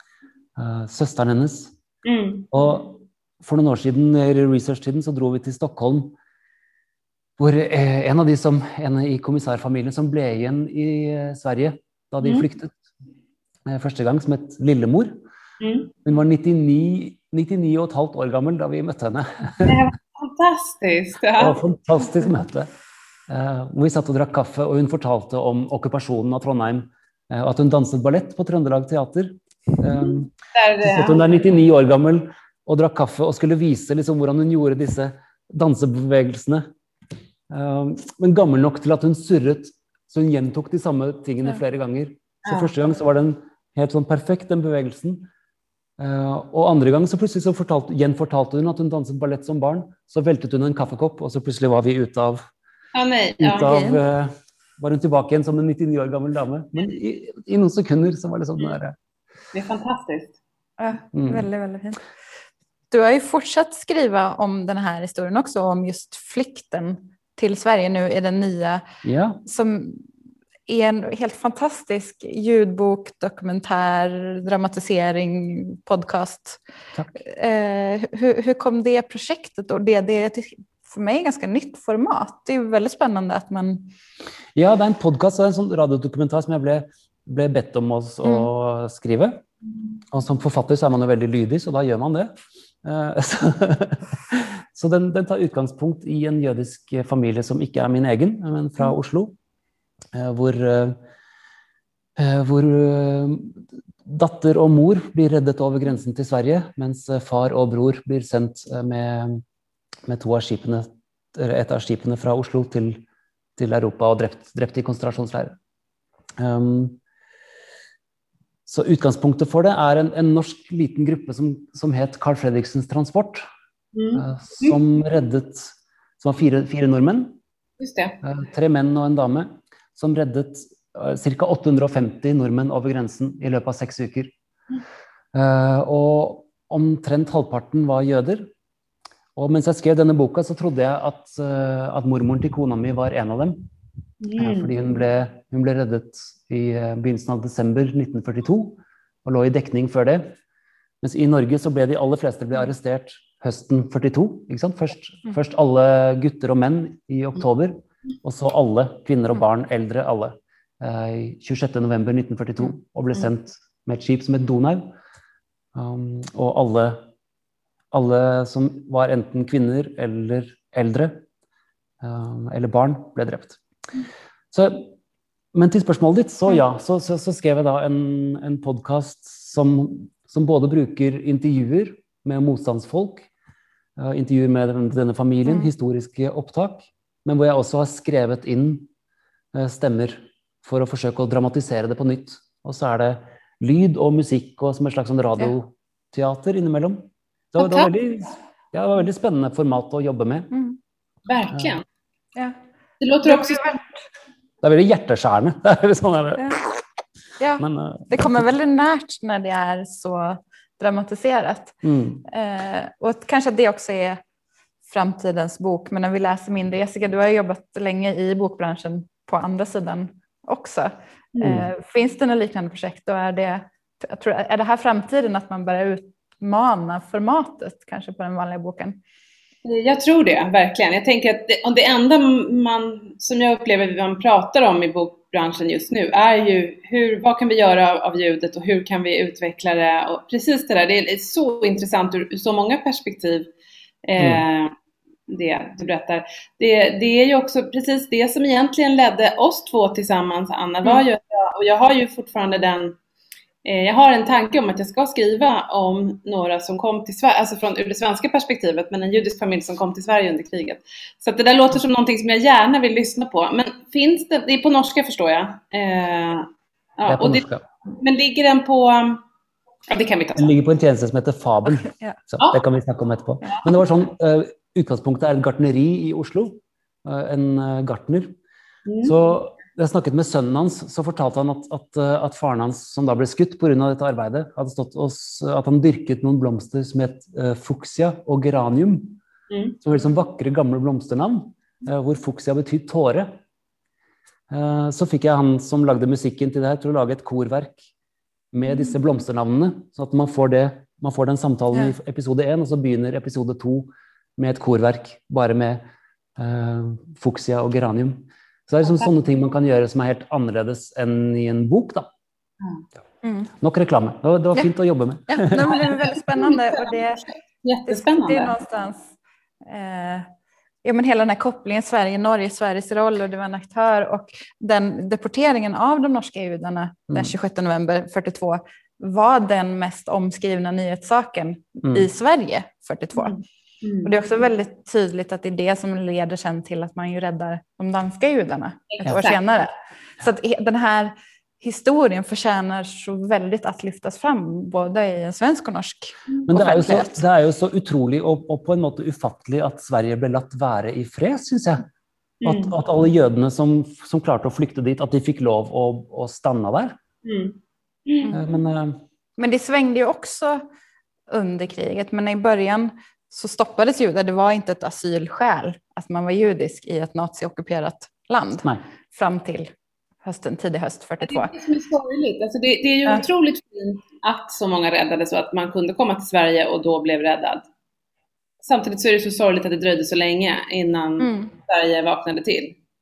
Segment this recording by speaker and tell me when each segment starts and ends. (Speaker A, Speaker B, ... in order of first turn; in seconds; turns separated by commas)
Speaker A: 0.6-1.8, Speaker B: 2.0-2.5, Speaker A: 2.5-6.2, Speaker A: 7.4-12.8, Speaker B: 12.2-12.5, Speaker A: 13.7-15.2, Speaker B: 15.6-15.9, Speaker A: 16.0-19.8, Speaker B: 19.6-21.6, Speaker A: 21.4-22.7, Speaker A: 23.3-36.7, Speaker B: 29.9-31.4, Speaker A: 37.5-45.3, Speaker B: 42.5-42.7, Speaker A: 46.0-52.4, Speaker B: 52.9-53.8, Speaker A: 53.4-59.0, Speaker C: 53.6-54.0, Speaker B: 59.5-60.4, Speaker C: 60.8-62.0, Speaker A: 61.1-61.5, Speaker C: 62.9-68.8, Speaker A: 69.0-69.4, Speaker C: 69.4-70.1, Speaker C: 70.7-76.6, Speaker C: 77.2-83.9, Speaker A: 84.5-89.4, Speaker C: 88.2-88.5, Speaker A: 90.1-92.3, Speaker A: 92.8-99.3, Speaker A: 100.1-101.0, Speaker A: 102.2-109.4, Speaker A: 110.1-113.0, Speaker A: 113.6-115.5, Speaker A: 116.4-117.0, Speaker A: 118.7-123.5, Speaker B: 123.9-124.8, Speaker A: 124.1-127.4, Speaker B: 127.8-128.2, Speaker A: 128.2-134.3, Speaker A: 135.3-138.5, Speaker A: 139.3-143.7, Speaker B: 144.2-144.7, Speaker A: 144.4-150.3, Speaker A: 151.0-164.9, Speaker A: 165.7-167.1, Speaker A: 167.9-171.2, Speaker A: 172.0-173.6, Speaker A: 174.5-174.9, Speaker A: 175.5-183.3, Speaker A: 184.0-188.9, Speaker C: 185.4-185.7, Speaker A: 189.5-200.5, Speaker B: 197.6-197.9, Speaker C: 200.5-200.8, Speaker B: 201.2-201.8, Speaker B: 203.0-203.8, Speaker C: 203.2-203.8, Speaker A: 204.6-206.8, Speaker C: 207.4-214.2, Speaker A: 207.6-208.4, Speaker A: 211.8-212.2, Speaker C: 214.8-229.0, Speaker B: 221.3-221.6, Speaker A: 221.4-221.7, Speaker B: 229.6-243.5, Speaker B: 244.0-244.7, Speaker B: 245.3-252.9, Speaker B: 253.6-267.4, Speaker A: 267.1-267.6, Speaker B: 268.0-269.2, Speaker B: 269.9-270.5, Speaker A: 270.4-278.3, Speaker C: 271.9-272.2, Speaker B: 278.9-279.1, Speaker A: 279.0-289.2, Speaker B: 289.5-289.8, Speaker A: 289.8-293.4, Speaker A: 294.5-297.9, Speaker A: 298.5-305.8, Speaker A: 306.4-312.1, Speaker C: 313.2-313.5, Speaker A: 313.6-315.9, Speaker C: 315.3-317.2, Speaker B: 316.3-316.9, Speaker B: 317.6-318.5, Speaker C: 317.9-319.1, Speaker C: 319.6-320.3, Speaker C: 320.8-333.4, Speaker B: 333.2-334.1, Speaker C: 334.0-347.2, Speaker B: 338.9-339.4, Speaker A: 346.5-351.9, Speaker B: 352.4-352.7, Speaker A: 352.4-357.0, Speaker B: 357.2-358.3, Speaker A: 358.3-359.0, Speaker C: 359.4-360.6, Speaker C: 361.3-369.7, Speaker C: 370.2-371.5, Speaker B: 371.2-377.6, Speaker B: 378.6-382.8, Speaker C: 381.2-381.5